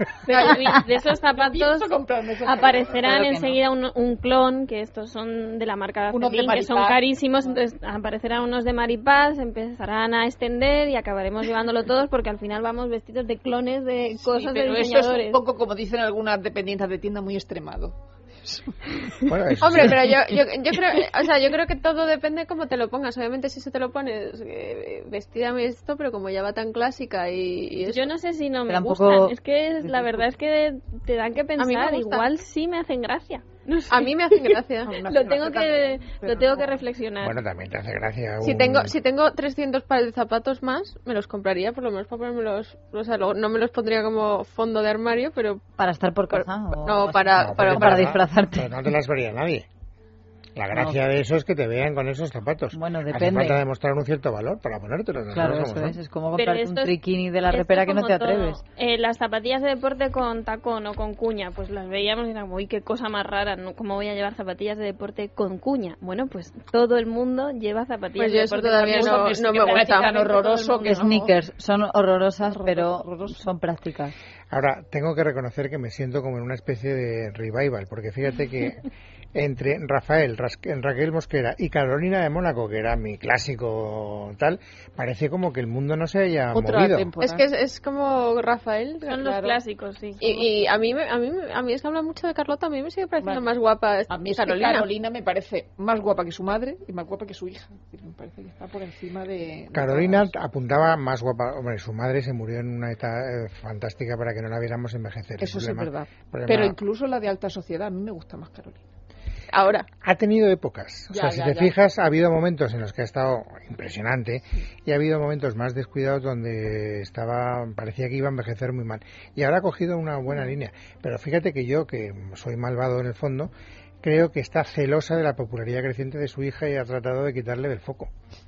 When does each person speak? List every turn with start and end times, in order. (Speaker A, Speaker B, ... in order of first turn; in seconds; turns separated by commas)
Speaker A: 0.2-1.9, Speaker B: 0.3-3.1, Speaker A: 2.4-15.4, Speaker C: 3.0-3.6, Speaker B: 6.1-7.6, Speaker B: 14.2-19.3, Speaker D: 19.2-20.2, Speaker E: 19.6-28.1, Speaker A: 27.8-37.4, Speaker C: 28.7-29.3, Speaker E: 31.6-32.2, Speaker E: 33.9-35.0, Speaker B: 34.9-36.8, Speaker D: 37.2-38.9, Speaker E: 38.4-45.6, Speaker C: 45.8-48.7, Speaker E: 46.3-48.1, Speaker D: 47.3-49.7, Speaker D: 50.5-56.0, Speaker C: 50.7-51.0, Speaker C: 52.7-53.6, Speaker C: 55.3-58.6, Speaker A: 56.4-56.9, Speaker A: 57.5-71.0, Speaker E: 68.2-70.2, Speaker B: 68.7-71.3, Speaker C: 70.8-74.1, Speaker B: 72.4-73.4, Speaker D: 74.5-87.1, Speaker B: 86.5-87.4, Speaker E: 87.2-89.6, Speaker A: 89.0-90.5, Speaker E: 90.2-94.9, Speaker B: 94.1-100.3, Speaker D: 99.7-106.8, Speaker B: 105.4-108.8, Speaker E: 109.5-109.9, Speaker D: 110.0-123.5, Speaker B: 111.1-111.7, Speaker D: 124.0-128.1